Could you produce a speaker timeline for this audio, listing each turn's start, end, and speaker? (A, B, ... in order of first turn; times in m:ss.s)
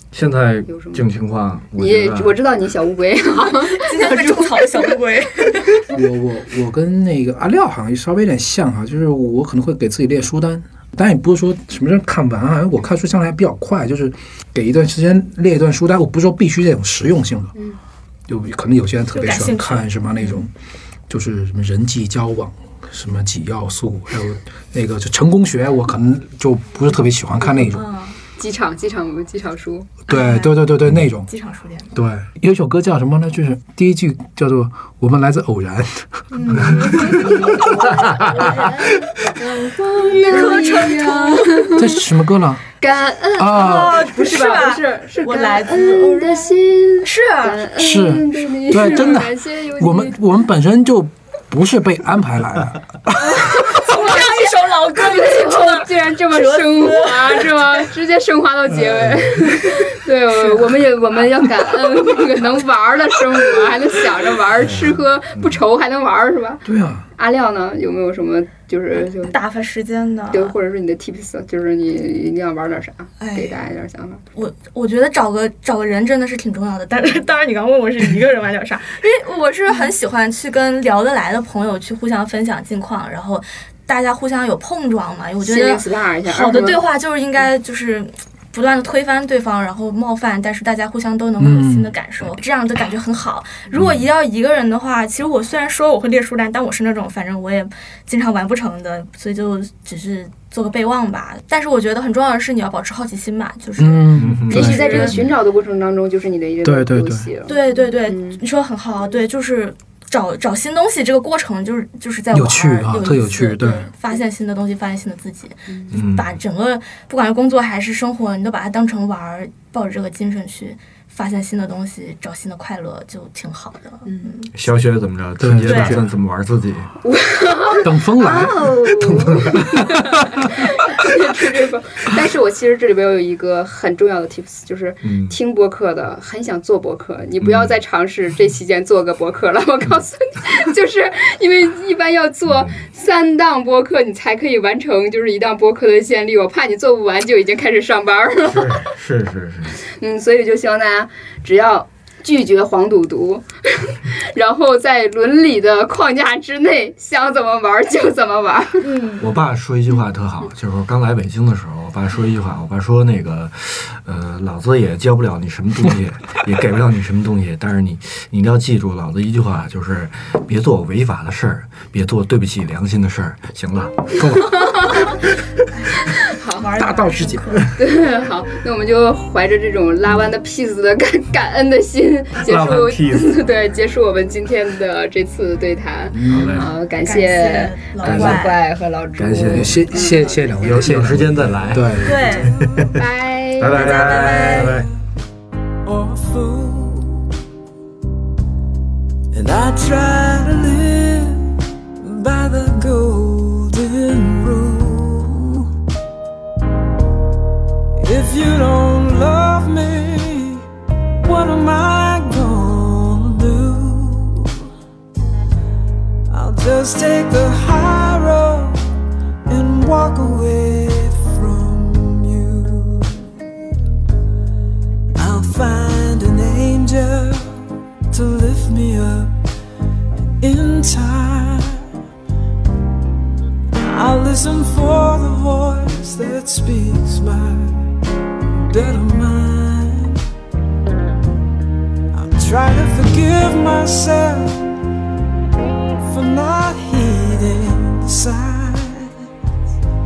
0:00.1-0:02.3 A
0:00.7-0:01.0 B
0:01.8-0:04.9 B
0:03.4-0:05.8 C
0:05.9-0:17.5 D
0:18.3-0:20.5 D
0:19.1-0:19.9 C
0:21.1-0:27.8 D
0:27.6-0:28.2 C
0:28.3-0:29.9 B
0:30.1-0:31.3 D
0:30.1-0:31.9 C
0:31.9-0:37.3 D
0:36.3-0:41.8 C
0:36.5-0:37.3 A
0:37.1-0:42.0 B
0:37.9-0:38.6 A
0:41.7-0:42.6 D
0:42.8-0:50.2 B
0:43.4-0:44.0 D
0:43.5-0:47.6 C
0:47.8-0:53.5 D
0:48.7-0:49.2 C
0:53.2-1:06.6 B
0:53.5-0:57.8 C
1:00.3-1:00.8 C
1:04.6-1:05.6 A
1:06.6-1:07.1 D
1:07.2-1:09.4 B
1:09.3-1:10.5 C
1:10.3-1:14.2 B
1:13.2-1:13.6 C
1:14.3-1:45.1 C
1:25.4-1:26.8 B
1:31.4-1:31.9 D
1:33.7-1:34.0 A
1:43.8-1:44.9 D
1:44.2-1:45.3 A
1:44.5-1:48.4 B
1:46.6-1:47.3 D
1:47.5-2:04.5 C
1:52.3-1:53.9 D
1:55.9-1:56.4 A
2:04.5-2:06.9 A
2:05.4-2:06.0 D
2:05.6-2:06.0 C
2:07.0-2:28.9 B
2:07.8-2:08.8 D
2:08.9-2:09.9 A
2:15.0-2:15.4 A
2:17.4-2:17.7 A
2:22.5-2:22.8 A
2:28.5-2:29.8 A
2:29.9-2:38.9 B
2:38.8-2:39.3 C
2:39.2-2:54.4 A
2:54.2-2:54.7 D
2:54.4-2:55.2 B
2:54.7-2:55.3 C
2:55.8-2:57.9 C
2:56.2-2:56.7 B
2:56.8-2:57.6 D
2:57.8-3:11.2 B
3:02.4-3:03.4 A
3:06.1-3:06.6 D
3:06.3-3:06.7 A
3:07.0-3:08.6 C
3:08.0-3:08.5 A
3:09.2-3:09.8 A
3:09.5-3:12.2 D
3:10.6-3:13.0 A
3:12.0-3:12.6 C
3:12.1-3:12.9 E
3:12.9-3:14.5 B
3:13.6-3:14.9 A
3:13.7-3:14.7 C
3:15.8-3:17.3 E
3:19.3-3:25.7 E
3:28.0-3:30.6 E
3:31.2-3:34.6 E
3:36.3-3:38.9 E
3:39.4-3:43.4 E
3:45.2-3:49.3 E
3:50.4-3:51.9 E
3:53.7-3:57.9 E
3:58.7-4:00.2 E
4:02.1-4:04.8 E
4:06.0-4:09.1 E